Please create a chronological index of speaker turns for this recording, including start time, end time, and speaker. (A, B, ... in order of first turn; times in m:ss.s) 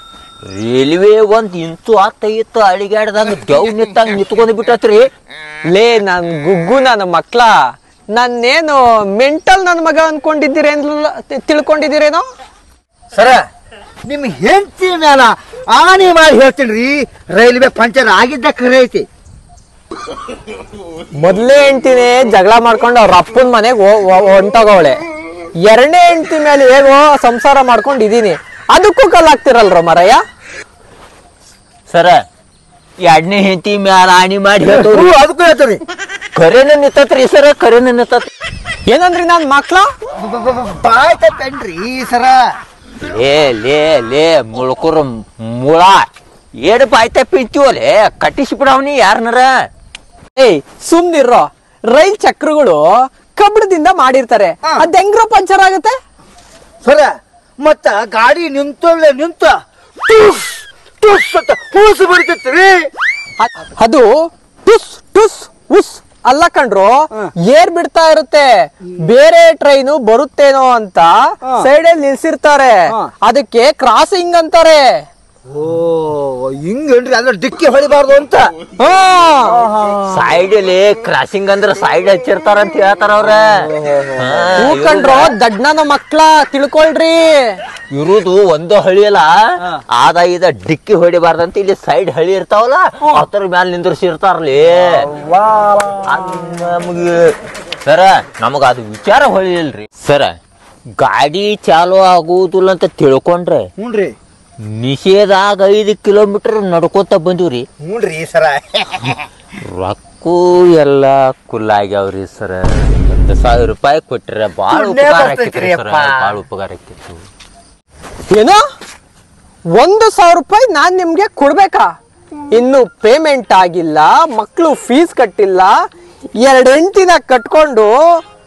0:00.5-0:05.1 A
0:05.7-0:07.6 B
0:08.1-0:12.3 B
0:13.1-0:13.4 C
0:14.1-0:19.1 C
0:21.2-0:25.0 B
0:25.6-0:30.2 B
0:31.9-0:32.2 A
0:33.0-0:35.1 A
0:34.6-0:35.8 C
0:36.4-0:38.3 A
0:38.9-0:39.9 B
0:40.2-0:42.4 C
0:43.0-0:46.1 A
0:46.6-0:49.7 A
0:50.4-0:56.0 B
0:54.6-0:54.9 C
0:56.8-1:02.9 C
1:03.4-1:04.1 B
1:04.6-1:15.0 B
1:11.4-1:11.7 C
1:15.5-1:20.4 C
1:19.1-1:19.6 B
1:20.1-1:23.5 A
1:23.6-1:24.6 C
1:24.2-1:25.3 A
1:24.6-1:27.6 B
1:27.9-1:29.3 A
1:29.9-1:35.0 A
1:34.8-1:36.5 C
1:36.1-1:37.3 A
1:37.8-1:40.3 A
1:41.0-1:43.7 A
1:43.8-1:44.1 C
1:44.6-1:47.6 A
1:47.8-1:49.2 C
1:49.6-1:57.2 A
1:54.7-1:56.4 C
1:58.3-1:58.6 B
1:59.8-2:01.9 B
2:02.5-2:05.7 B
2:06.4-2:07.9 B